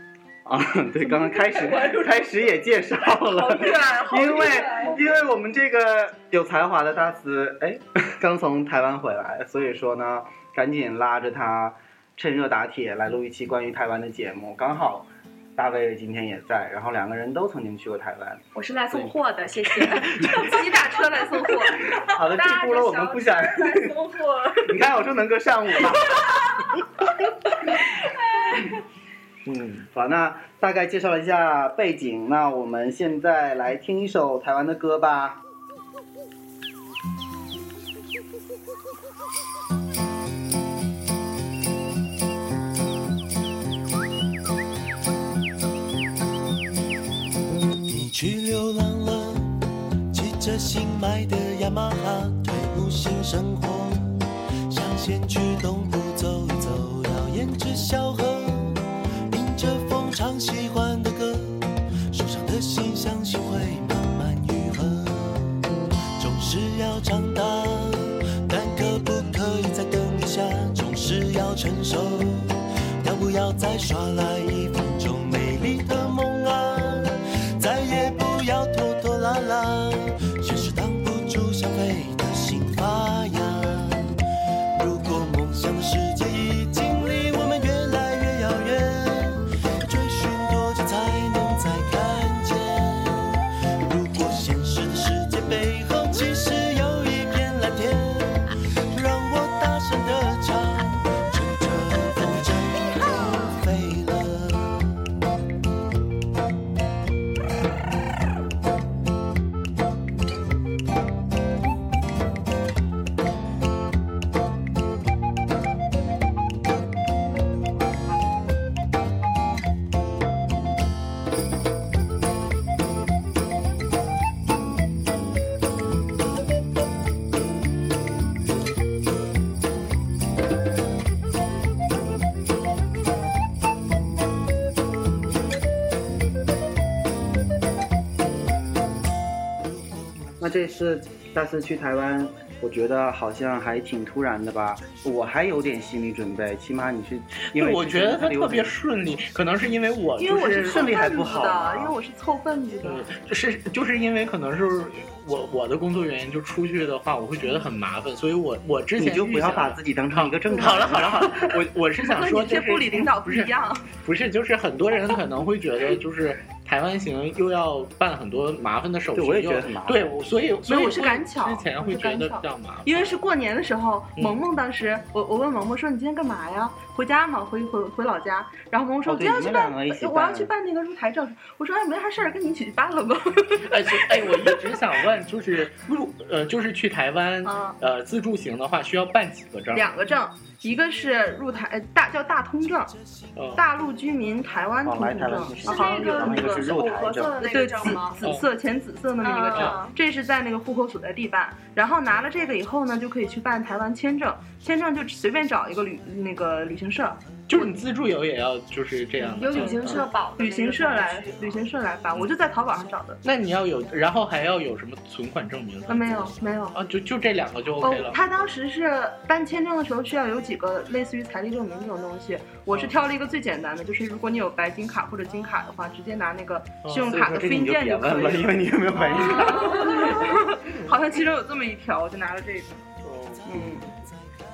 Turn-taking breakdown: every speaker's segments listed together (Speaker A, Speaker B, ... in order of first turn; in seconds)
Speaker A: 0.5-19.2, 22.0-23.9, 24.6-26.4, 29.9-35.4, 140.4-148.8, 150.3-151.9, 159.0-161.5, 169.1-170.1, 179.1-180.5, 194.8-197.6, 227.0-230.1, 233.5-233.8
Speaker B: 1.0-2.4, 3.0-5.0, 20.2-24.7, 150.2-153.1, 162.0-163.9, 170.7-184.6, 187.4-187.8, 189.7-192.9, 193.6-196.8, 197.4-207.7, 209.5-213.2, 215.9-216.8, 217.8-232.8
Speaker C: 18.6-20.3, 195.6-198.2, 199.2-200.0, 209.2-211.6, 229.3-230.1
Speaker D: 29.5-29.9, 147.4-150.9, 152.8-173.2, 183.6-189.9, 193.4-193.6, 207.5-210.1, 213.2-218.2, 226.8-227.2, 233.0-233.5
Speaker E: 47.9-84.1, 84.8-105.0